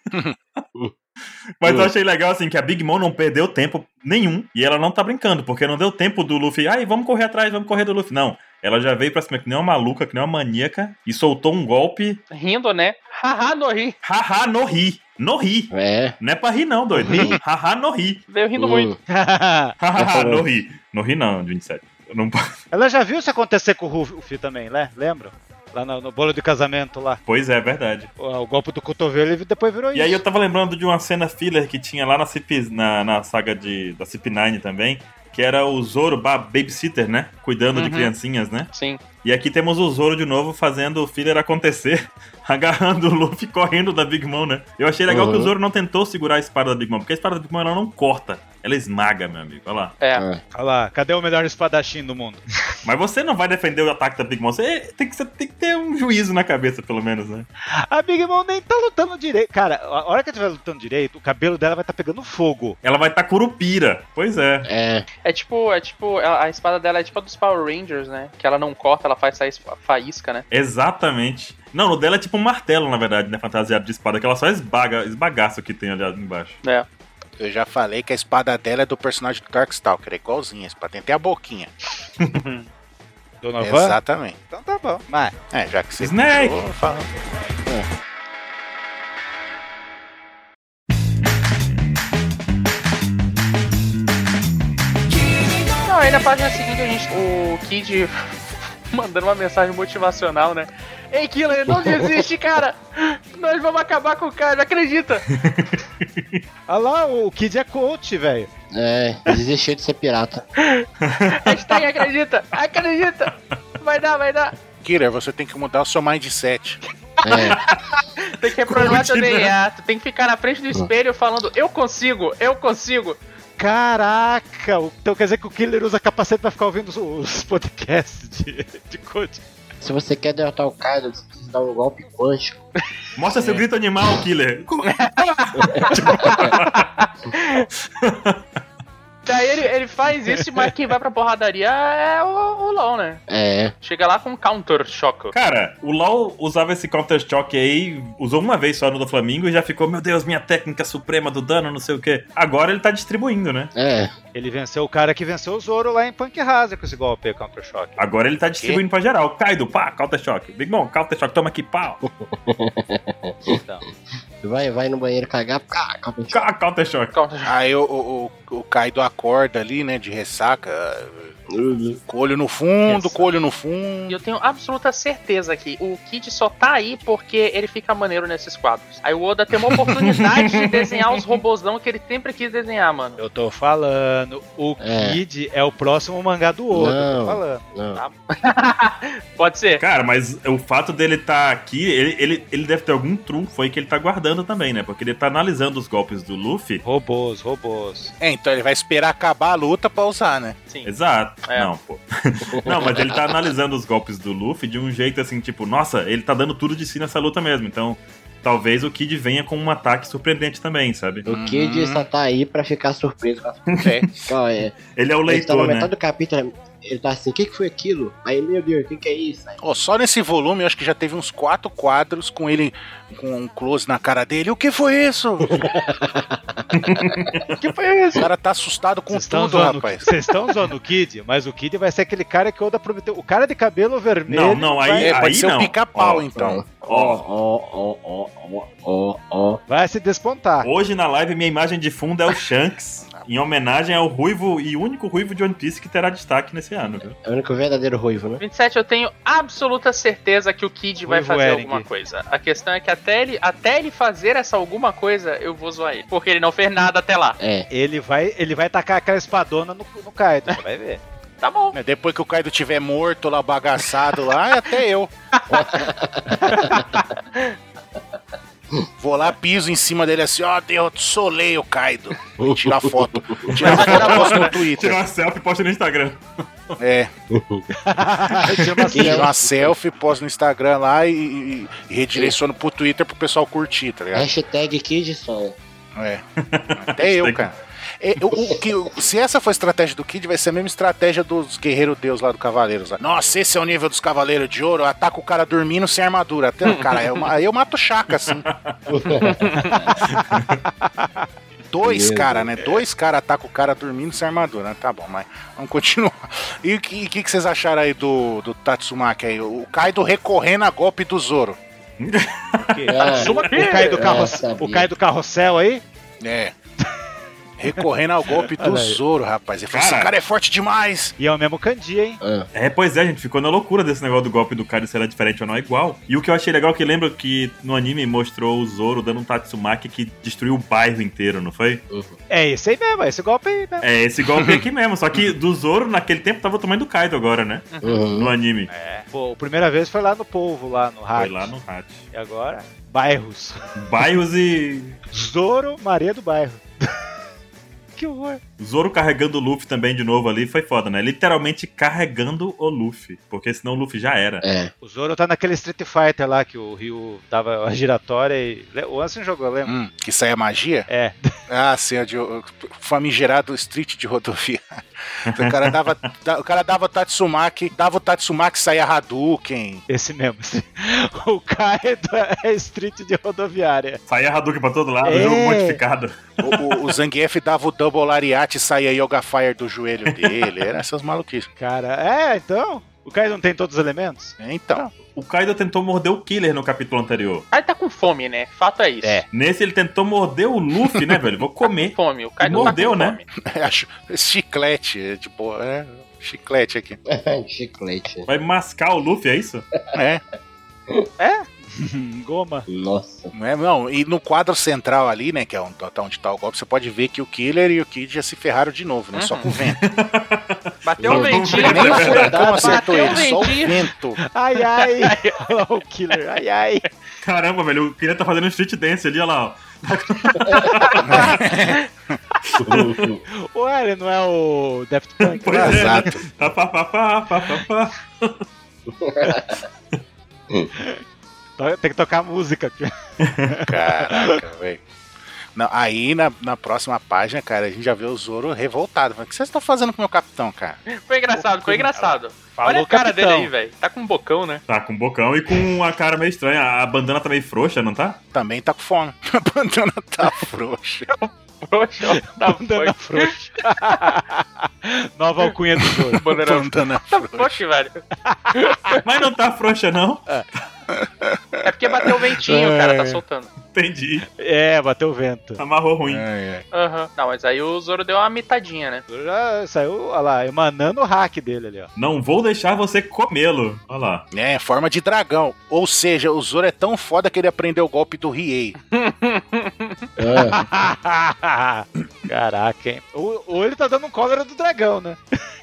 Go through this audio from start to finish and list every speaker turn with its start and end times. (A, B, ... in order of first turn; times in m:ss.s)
0:01.6-0:12.2 A
0:01.6-0:01.9 B
0:12.3-0:14.0 C
0:14.0-0:18.2 A
0:15.7-0:16.2 B
0:17.0-0:17.4 B
0:18.3-0:18.9 C
0:18.6-0:19.0 B
0:19.1-0:19.7 D
0:19.8-0:22.4 A
0:20.0-0:20.5 B
0:22.7-0:27.2 D
0:27.3-0:28.1 A
0:28.2-0:30.2 D
0:29.9-0:38.7 A
0:37.7-0:38.1 C
0:38.7-0:39.0 C
0:39.2-0:50.0 A
0:45.1-0:45.5 B
0:50.2-0:50.4 B
0:50.5-0:52.4 D
0:52.8-0:57.5 A
0:57.9-1:02.8 D
1:02.8-1:04.7 A
1:04.7-1:05.1 B
1:05.2-1:10.4 C
1:10.5-1:16.6 A
1:17.4-1:21.7 E
1:22.3-1:22.7 C
1:23.4-1:24.0 D
1:23.6-1:24.4 E
1:24.5-1:25.3 D
1:25.5-1:27.1 E
1:26.0-1:26.6 A
1:35.8-1:38.4 C
1:38.9-1:45.3 C
1:45.3-1:46.4 A
1:46.7-1:48.5 D
1:48.7-1:50.5 B
1:50.6-1:54.6 C
1:51.0-1:51.7 A
1:54.8-1:56.8 E
1:57.2-2:03.2 C
1:57.2-1:57.6 B
1:57.4-1:57.8 A
1:58.6-1:59.5 A
2:03.6-2:09.4 D
2:09.8-2:12.7 B
2:13.2-2:15.0 A
2:14.8-2:17.7 C
2:15.6-2:16.5 B
2:15.9-2:16.8 A
2:18.0-2:18.4 A
2:19.3-2:23.2 C
2:23.3-2:23.7 B
2:23.8-2:25.3 C
2:25.3-2:33.7 A
2:33.8-2:34.1 B
2:34.3-2:38.0 D
2:38.0-2:42.0 A
2:42.2-2:43.6 B
2:43.5-2:43.8 D
2:44.4-2:46.5 B
2:46.3-2:47.1 A
2:47.1-2:47.5 C
2:47.4-2:51.4 E
2:51.5-2:52.0 B
2:52.1-2:54.2 E
2:52.9-2:53.2 D
2:54.1-3:03.2 C
2:59.7-3:01.4 A
3:03.2-3:07.6 D
3:04.8-3:05.2 B
3:06.7-3:08.0 B
3:08.0-3:09.8 C
3:09.8-3:16.8 A
3:16.8-3:18.1 D
3:18.2-3:20.6 E
3:20.8-3:31.3 A
3:22.6-3:23.0 B
3:31.3-3:39.6 B
3:31.3-3:32.1 E
3:33.7-3:34.0 A
3:33.8-3:34.2 E
3:34.9-3:35.9 A
3:39.6-3:45.6 E
3:45.5-3:47.3 B
3:46.7-3:47.5 A
3:48.2-3:50.1 E
3:49.1-3:55.2 D
3:54.3-3:56.3 A
3:55.0-3:56.6 E
3:56.4-3:59.6 B
3:56.8-3:57.2 A
3:59.7-4:00.7 D
4:00.6-4:07.0 A
4:07.0-4:08.4 B
4:08.4-4:17.4 C
4:11.0-4:11.9 D
4:17.4-4:17.7 B
4:17.7-4:21.0 D
4:21.4-4:21.8 C
4:21.7-4:25.1 E
4:25.3-4:25.6 C
4:25.5-4:27.0 B
4:26.5-4:27.6 C
4:29.0-4:35.0 E
4:32.4-4:33.9 B
4:33.6-4:34.6 C
4:33.6-4:36.2 A
4:36.8-4:37.1 E
4:37.3-4:37.6 B
4:37.8-4:39.4 D
4:38.9-4:39.7 B
4:38.9-4:44.3 E
4:44.1-4:45.6 B
4:46.0-4:46.2 E
4:46.4-4:47.5 A
4:46.8-4:58.5 E
4:48.4-4:48.6 B
4:56.6-4:57.3 C
4:58.1-4:58.8 A
4:58.9-4:59.9 B
4:59.2-4:59.9 C
4:59.6-5:00.2 D
5:00.1-5:00.6 A
5:00.8-5:01.1 D
5:01.7-5:11.6 E
5:01.8-5:02.5 B
5:12.0-5:13.4 A
5:12.6-5:15.8 D
5:12.9-5:13.4 B
5:13.0-5:14.2 C
5:13.9-5:14.9 B
5:16.2-5:16.5 E
5:17.6-5:21.2 E
5:18.4-5:19.0 D
5:19.7-5:20.1 A
5:21.2-5:22.2 D
5:22.2-5:22.5 B
5:22.5-5:31.8 A
5:31.9-5:32.2 B
5:32.3-5:33.9 D
5:33.8-5:38.7 A
5:34.4-5:34.6 E
5:37.7-5:38.1 C
5:37.8-5:38.3 B
5:38.7-5:41.5 D
5:41.2-5:42.0 A
5:42.1-5:43.8 D
5:43.8-5:45.0 A
5:45.1-5:47.1 D
5:48.0-5:48.4 D
5:48.6-5:54.4 A
5:54.4-5:54.7 B
5:54.8-5:59.7 D
5:59.6-6:00.9 E
6:00.9-6:01.3 D
6:01.5-6:09.8 E
6:05.3-6:06.1 A
6:09.9-6:14.0 D
6:14.1-6:16.9 A
6:15.0-6:15.8 D
6:16.4-6:21.5 E
6:20.1-6:20.5 A
6:21.6-6:24.4 D
6:24.4-6:24.9 E
6:25.1-6:27.5 A
6:27.5-6:29.2 C
6:29.3-6:33.2 A
6:31.9-6:33.3 C
6:32.5-6:32.8 E
6:33.4-6:37.0 E
6:37.1-6:38.3 B
6:38.3-6:39.6 A
6:39.9-6:40.2 E
6:41.2-6:42.7 D
6:42.7-6:43.3 B
6:43.3-6:49.8 E
6:49.1-6:49.5 C
6:49.6-6:52.6 A
6:50.8-6:53.9 C
6:51.0-6:52.8 B
6:51.5-6:54.2 E
6:54.2-6:56.8 D
6:54.8-6:55.5 C
6:57.2-7:01.4 A
7:00.6-7:01.9 C
7:00.9-7:01.3 D
7:01.0-7:02.2 E
7:02.5-7:03.1 A
7:02.6-7:03.2 B
7:03.4-7:06.2 D
7:05.2-7:08.4 A
7:05.6-7:06.2 E
7:09.0-7:09.6 B
7:11.6-7:12.9 D
7:13.2-7:13.6 A
7:13.4-7:14.4 D
7:13.6-7:14.8 E
7:15.6-7:20.8 E
7:20.9-7:24.6 C
7:21.3-7:23.5 D
7:24.7-7:28.2 A
7:28.3-7:31.1 E
7:31.1-7:34.0 C
7:32.1-7:36.3 D
7:36.0-7:37.6 E
7:36.2-7:39.0 C
7:38.2-7:39.0 D
7:39.0-7:40.2 A
7:40.9-7:43.2 E
7:41.6-7:43.5 C
7:43.7-7:44.2 A
7:44.4-7:45.6 D
7:45.6-7:46.2 A
7:46.1-7:46.7 E
7:46.7-7:49.0 C
7:49.1-7:51.9 D
7:52.0-7:54.3 A
7:54.3-7:58.8 E
7:58.8-8:00.0 C
8:00.2-8:00.6 B
8:00.2-8:05.2 D